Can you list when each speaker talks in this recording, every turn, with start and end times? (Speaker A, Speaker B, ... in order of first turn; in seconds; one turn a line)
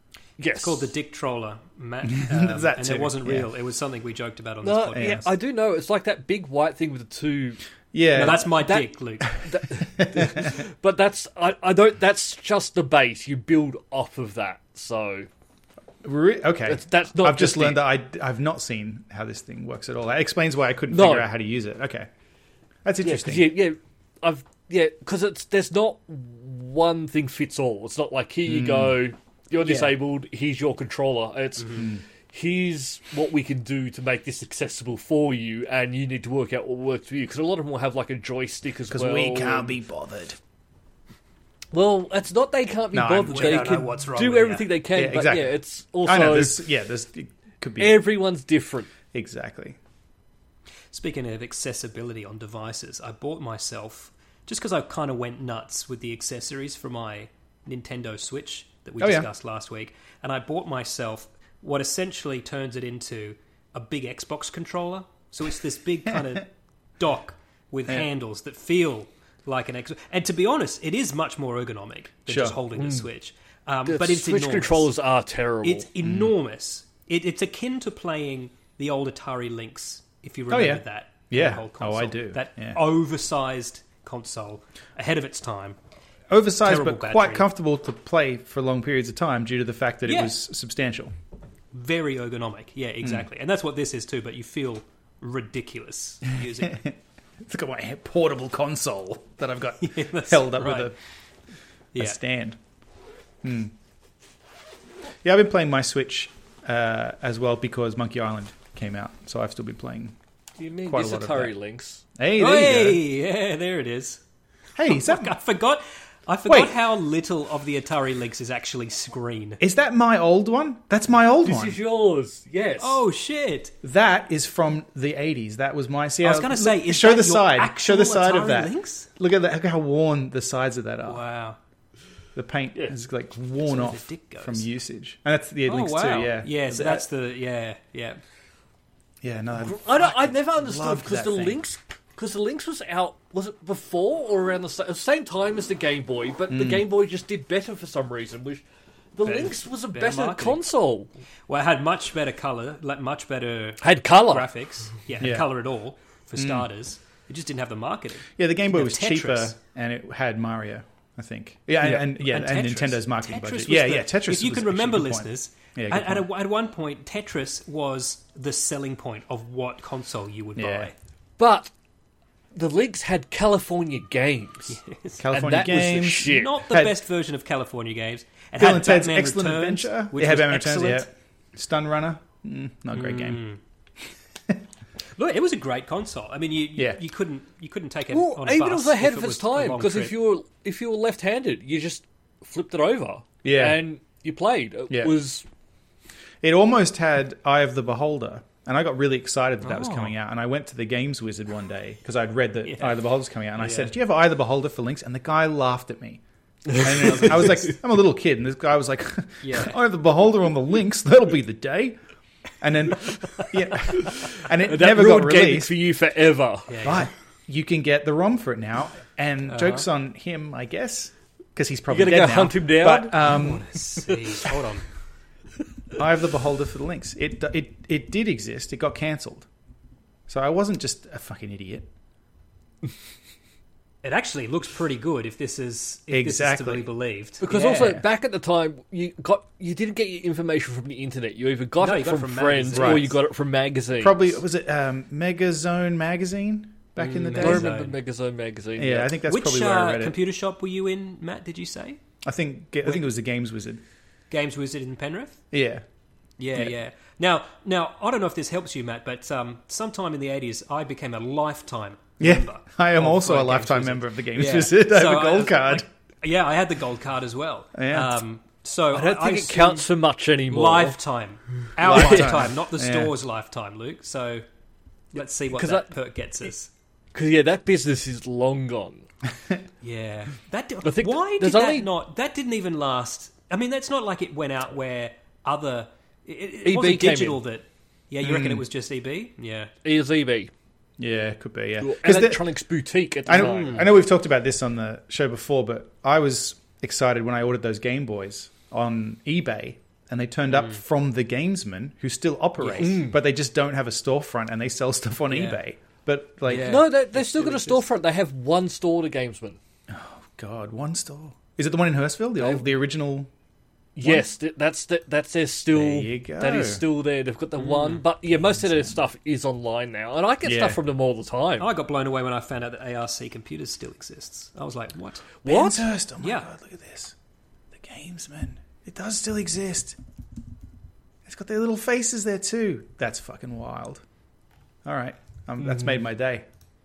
Speaker A: 0.4-0.9
Speaker B: 0.6-5.3
Speaker C: 2.1-3.5
Speaker A: 4.6-7.6
Speaker C: 5.0-5.2
Speaker C: 7.9-8.5
Speaker B: 8.1-9.4
Speaker A: 8.2-15.3
Speaker C: 9.8-10.5
Speaker C: 16.0-22.1
Speaker A: 16.7-17.9
Speaker A: 20.9-21.3
Speaker C: 22.9-23.5
Speaker A: 23.0-39.7
Speaker C: 28.5-29.0
Speaker B: 29.6-29.9
Speaker C: 31.8-32.0
Speaker C: 38.9-40.4
Speaker A: 41.7-46.6
Speaker C: 42.9-43.7
Speaker B: 43.3-44.7
Speaker C: 44.9-48.0
Speaker A: 47.8-48.9
Speaker C: 49.1-49.8
Speaker B: 50.9-74.9
Speaker C: 59.0-59.3
Speaker C: 72.3-72.6
Speaker A: 72.8-73.1
Speaker A: 73.9-75.9
Speaker B: 75.6-85.8
Speaker C: 76.0-76.3
Speaker C: 80.5-82.8
Speaker C: 86.3-91.1
Speaker B: 86.6-87.5
Speaker B: 90.0-90.4
Speaker B: 91.7-96.8
Speaker C: 96.6-101.0
Speaker B: 99.8-101.0
Speaker C: 102.0-102.6
Speaker C: 103.4-103.7
Speaker C: 105.2-110.2
Speaker A: 110.6-112.0
Speaker C: 110.9-111.5
Speaker C: 112.2-113.0
Speaker B: 112.4-114.2
Speaker C: 114.8-115.3
Speaker B: 114.8-119.6
Speaker C: 116.5-116.8
Speaker C: 119.6-121.8
Speaker A: 121.4-123.0
Speaker B: 122.8-123.7
Speaker C: 123.8-131.2
Speaker B: 126.2-129.1
Speaker B: 131.0-131.6
Speaker C: 132.3-137.1
Speaker B: 133.7-134.7
Speaker B: 135.7-138.2
Speaker C: 139.2-141.6
Speaker A: 139.6-148.6
Speaker C: 146.5-146.9
Speaker A: 149.2-151.1
Speaker B: 149.2-150.6
Speaker B: 151.5-159.6
Speaker A: 153.8-154.5
Speaker C: 155.2-155.5
Speaker C: 156.4-156.7
Speaker C: 158.4-166.3
Speaker B: 162.0-170.9
Speaker C: 170.6-170.9
Speaker A: 171.4-171.7
Speaker A: 172.5-174.8
Speaker B: 174.8-181.1
Speaker C: 175.2-177.0
Speaker A: 175.3-176.6
Speaker C: 178.6-183.4
Speaker B: 182.9-183.6
Speaker B: 185.2-190.2
Speaker A: 188.1-195.4
Speaker C: 193.4-193.8
Speaker C: 196.4-206.2
Speaker A: 199.6-200.1
Speaker B: 202.6-203.9
Speaker C: 206.7-212.0
Speaker B: 209.4-209.8
Speaker C: 212.6-215.7
Speaker A: 214.0-216.7
Speaker B: 216.7-217.1
Speaker C: 216.8-223.7
Speaker B: 219.5-219.9
Speaker A: 221.9-223.3
Speaker B: 223.2-224.8
Speaker C: 226.0-229.5
Speaker C: 230.3-231.9
Speaker B: 234.0-238.0
Speaker C: 236.1-236.9
Speaker A: 237.4-244.4
Speaker B: 241.8-243.2
Speaker C: 242.8-243.1
Speaker C: 244.0-247.7
Speaker B: 247.0-247.9
Speaker A: 247.4-249.1
Speaker C: 248.8-250.2
Speaker B: 249.2-252.0
Speaker C: 252.2-253.8
Speaker B: 254.3-255.4
Speaker C: 255.5-255.8
Speaker B: 256.4-269.9
Speaker C: 262.2-265.9
Speaker C: 267.8-268.2
Speaker A: 268.9-271.0
Speaker B: 270.5-274.4
Speaker C: 271.8-273.1
Speaker A: 271.8-272.5
Speaker B: 275.1-276.7
Speaker A: 275.5-275.9
Speaker A: 277.1-279.1
Speaker B: 279.8-289.7
Speaker A: 280.8-281.9
Speaker A: 286.6-287.4
Speaker C: 288.2-288.6
Speaker A: 289.8-290.5
Speaker C: 291.0-292.4
Speaker A: 291.8-293.9
Speaker C: 293.3-306.8
Speaker B: 293.3-293.9
Speaker B: 300.5-300.8
Speaker B: 302.6-303.0
Speaker A: 302.8-303.2
Speaker B: 305.3-305.6
Speaker B: 306.5-307.8
Speaker A: 306.5-309.6
Speaker C: 309.9-313.3
Speaker A: 314.0-321.7
Speaker C: 315.7-316.8
Speaker B: 317.6-318.0
Speaker C: 318.5-319.0
Speaker C: 320.4-320.8
Speaker B: 321.6-325.4
Speaker A: 325.4-325.9
Speaker C: 325.5-327.1
Speaker B: 326.2-326.5
Speaker C: 327.7-330.0
Speaker C: 331.2-334.0
Speaker C: 334.8-336.5
Speaker A: 335.6-336.0